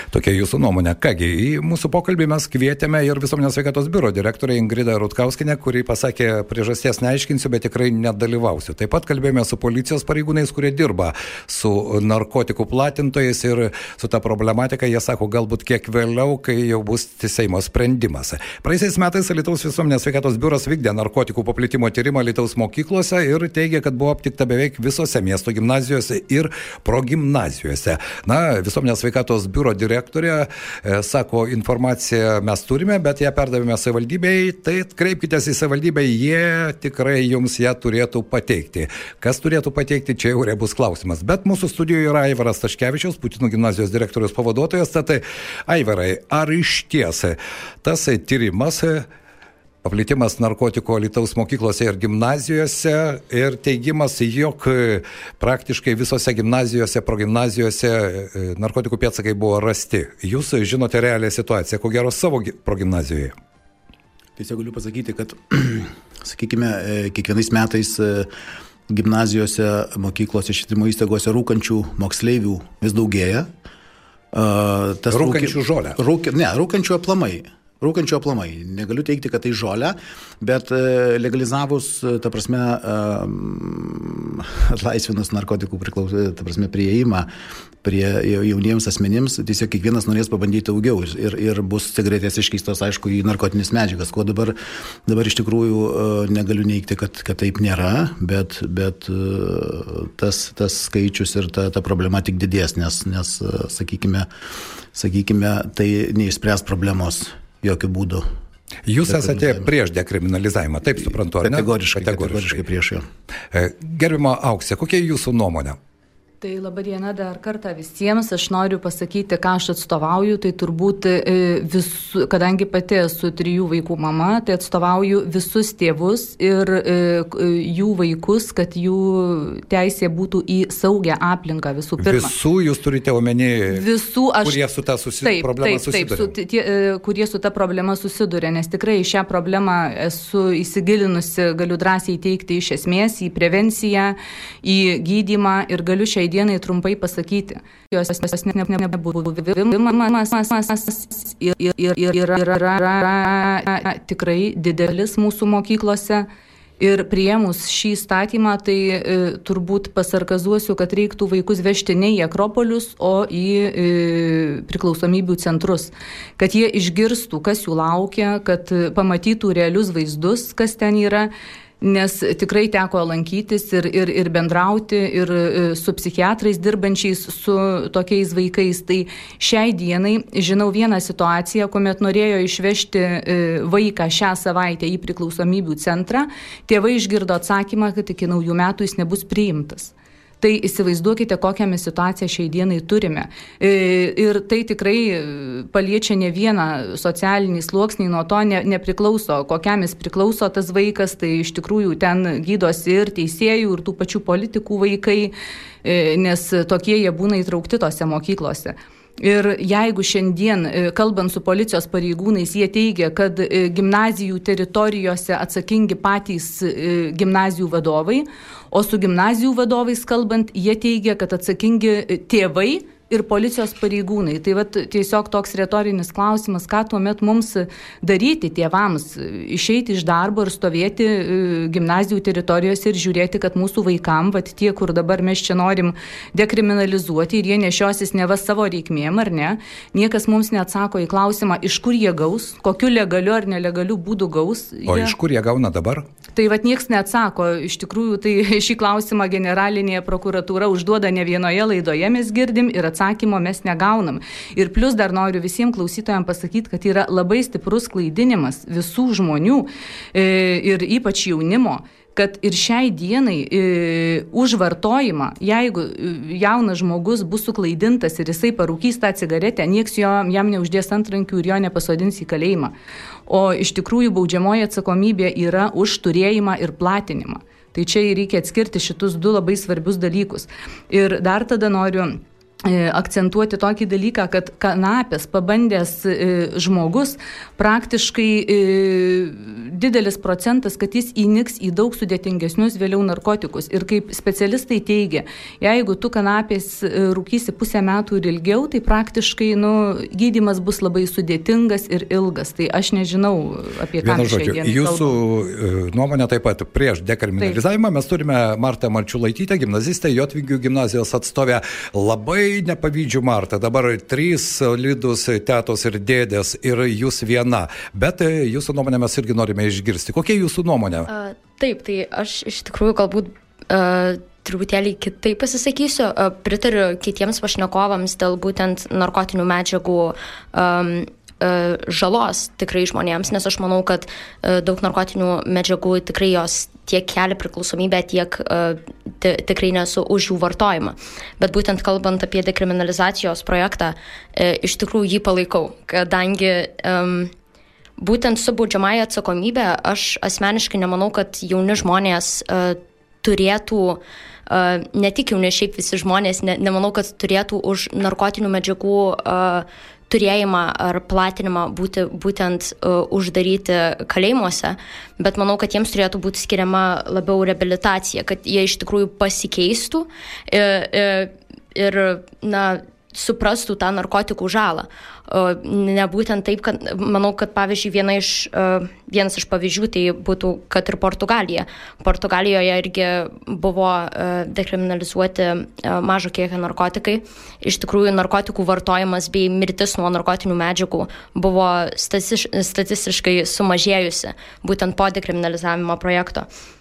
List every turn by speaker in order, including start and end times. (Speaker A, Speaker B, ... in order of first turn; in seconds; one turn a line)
Speaker A: 0.1-49.1
Speaker A: 49.8-63.3
Speaker B: 64.4-68.3
Speaker B: 68.9-73.5
Speaker B: 74.3-87.3
Speaker A: 75.1-76.0
Speaker B: 87.8-104.3
Speaker B: 104.9-108.2
Speaker A: 108.9-112.6
Speaker B: 109.1-109.7
Speaker B: 111.4-113.0
Speaker A: 113.5-115.8
Speaker C: 116.4-132.3
Speaker A: 132.0-133.9
Speaker C: 133.7-134.6
Speaker A: 134.4-136.3
Speaker C: 135.2-156.3
Speaker C: 156.8-205.3
Speaker C: 205.8-245.1
Speaker A: 244.8-246.0
Speaker C: 246.3-272.7
Speaker C: 273.3-305.1
Speaker A: 304.0-321.1
Speaker D: 321.1-347.3
Speaker D: 348.0-396.5